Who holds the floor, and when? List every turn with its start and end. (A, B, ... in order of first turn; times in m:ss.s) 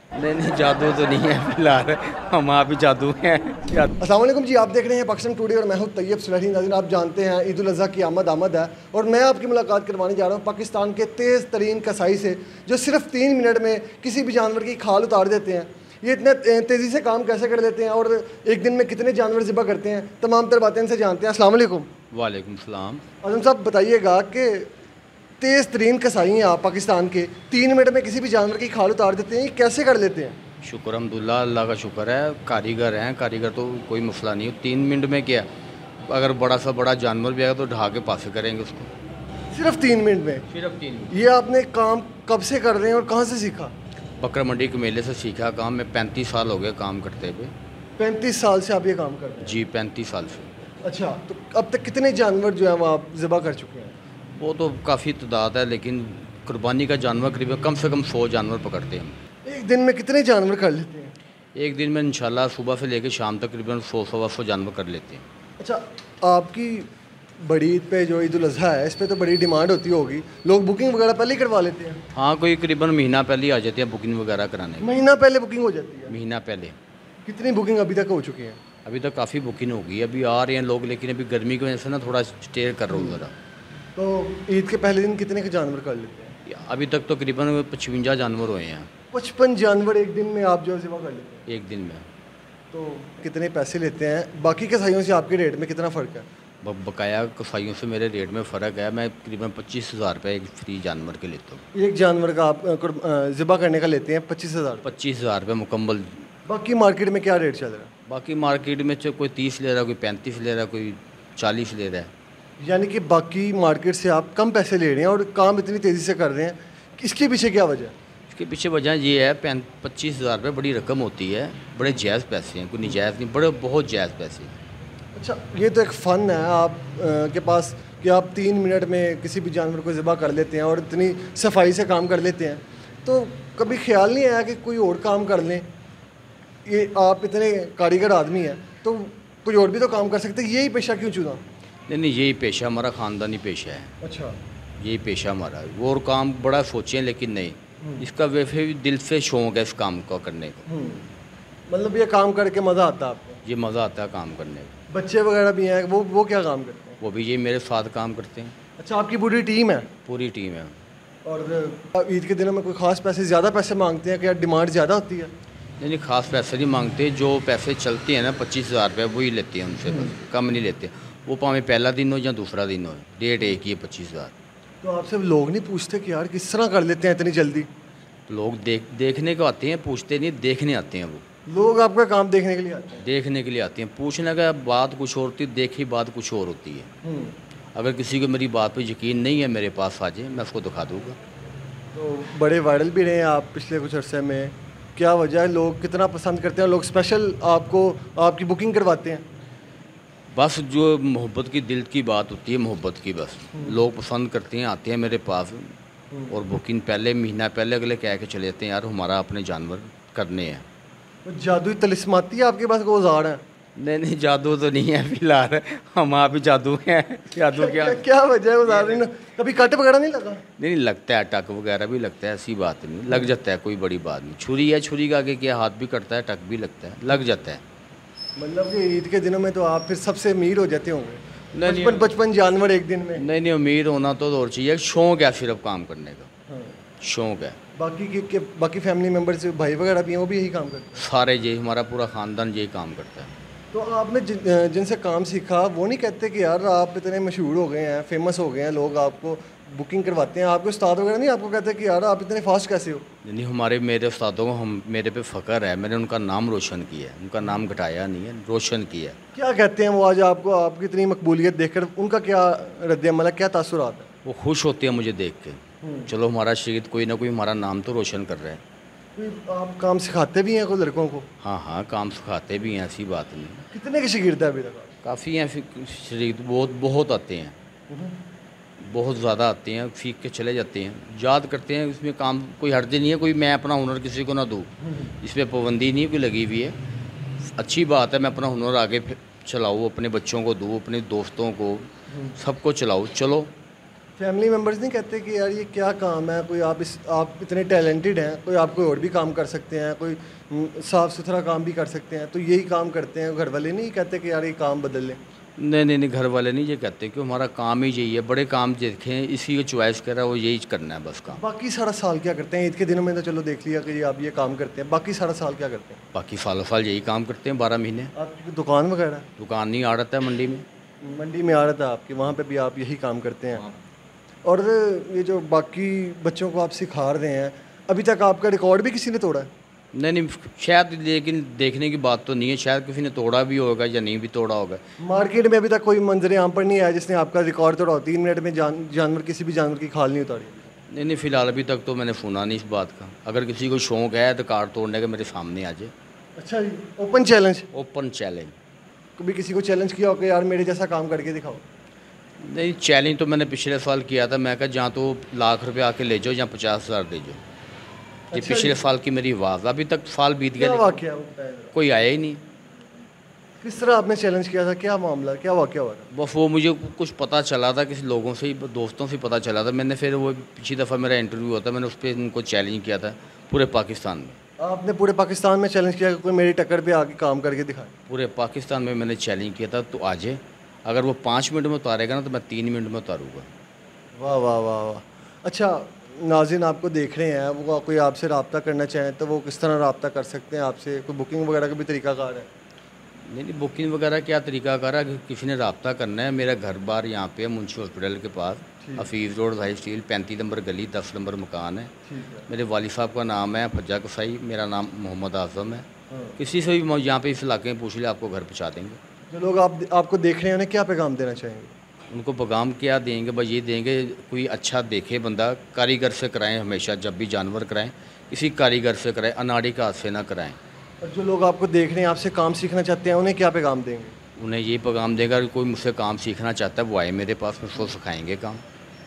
0:00.1-0:03.9 A
0:04.0-0:21.9 B
0:22.1-0:23.0 A
0:23.2-0:24.7 B
0:25.4-0:30.4 B
0:30.6-0:35.5 A
0:36.0-0:38.9 A
0:39.5-0:40.5 B
0:40.5-0:41.1 A
0:41.1-0:43.7 B
0:44.2-0:47.5 A
0:48.0-0:49.6 B
0:49.4-0:50.5 A
0:50.8-0:53.9 B
0:54.3-0:59.2 A
0:59.4-1:01.1 B
1:01.6-1:05.2 A
1:05.6-1:06.9 B
1:07.4-1:12.0 B
1:12.1-1:14.9 A
1:14.8-1:16.2 B
1:16.1-1:16.8 A
1:17.2-1:18.6 B
1:18.8-1:23.3 A
1:22.9-1:23.2 B
1:23.9-1:26.4 B
1:26.5-1:28.9 A
1:29.1-1:31.4 B
1:31.5-1:32.0 A
1:32.7-1:36.2 B
1:36.6-1:41.6 A
1:41.7-1:44.9 B
1:44.8-1:46.3 A
1:46.4-1:47.9 B
1:48.1-1:52.1 A
1:52.6-1:57.9 B
1:58.3-2:04.6 A
2:05.1-2:15.7 B
2:16.6-2:21.4 B
2:21.9-2:23.9 A
2:24.0-2:24.4 B
2:24.8-2:30.6 A
2:27.8-2:28.1 B
2:30.7-2:31.1 B
2:31.7-2:33.4 B
2:33.4-2:34.7 A
2:34.9-2:37.0 B
2:37.0-2:38.5 A
2:38.8-2:39.9 B
2:40.0-2:40.8 A
2:41.2-2:45.3 B
2:45.8-2:54.3 A
2:49.9-2:50.1 B
2:54.8-2:57.7 B
2:58.3-3:01.2 A
3:01.5-3:03.0 B
3:03.0-3:06.9 A
3:07.0-3:07.3 B
3:07.7-3:11.2 A
3:11.9-3:19.2 B
3:20.3-3:25.7 A
3:26.1-3:26.4 B
3:26.3-3:30.6 A
3:31.2-3:33.4 B
3:33.8-3:38.0 A
3:37.5-3:40.4 B
3:38.6-3:39.0 A
3:40.6-3:47.6 A
3:48.4-3:53.2 B
3:51.5-3:52.1 A
3:53.2-3:56.3 A
3:56.5-3:56.8 B
3:57.0-3:57.6 A
3:57.8-4:01.0 B
4:01.0-4:03.3 A
4:03.7-4:13.0 B
4:13.2-4:19.2 A
4:19.3-4:24.1 B
4:24.2-4:28.6 A
4:25.8-4:26.1 B
4:29.2-4:31.2 B
4:31.4-4:33.6 A
4:33.7-4:34.9 B
4:35.0-4:37.5 A
4:37.9-4:38.2 B
4:38.8-4:44.7 A
4:44.8-4:45.1 B
4:45.2-4:46.8 A
4:47.6-4:53.5 A
4:52.1-4:52.4 B
4:54.2-5:05.2 B
5:05.6-5:11.4 A
5:11.3-5:16.0 B
5:16.1-5:18.1 A
5:18.1-5:19.3 B
5:19.4-5:20.6 A
5:21.0-5:23.7 B
5:24.4-5:29.5 B
5:29.9-5:34.8 A
5:35.0-5:40.7 B
5:40.9-5:45.9 A
5:46.4-5:47.7 B
5:47.7-5:48.5 A
5:49.2-5:51.6 B
5:52.4-5:57.4 A
5:58.3-5:58.8 B
5:58.3-6:01.0 A
6:00.6-6:01.7 B
6:01.7-6:02.4 A
6:03.6-6:06.1 B
6:06.1-6:14.4 A
6:14.6-6:17.9 B
6:18.1-6:23.5 A
6:24.1-6:32.5 B
6:33.3-6:41.9 A
6:38.8-6:39.1 B
6:42.1-6:42.5 B
6:42.5-6:45.8 A
6:46.1-6:46.4 B
6:46.4-6:49.0 A
6:49.3-6:51.7 B
6:52.1-7:00.6 A
7:01.0-7:04.1 B
7:04.4-7:08.6 A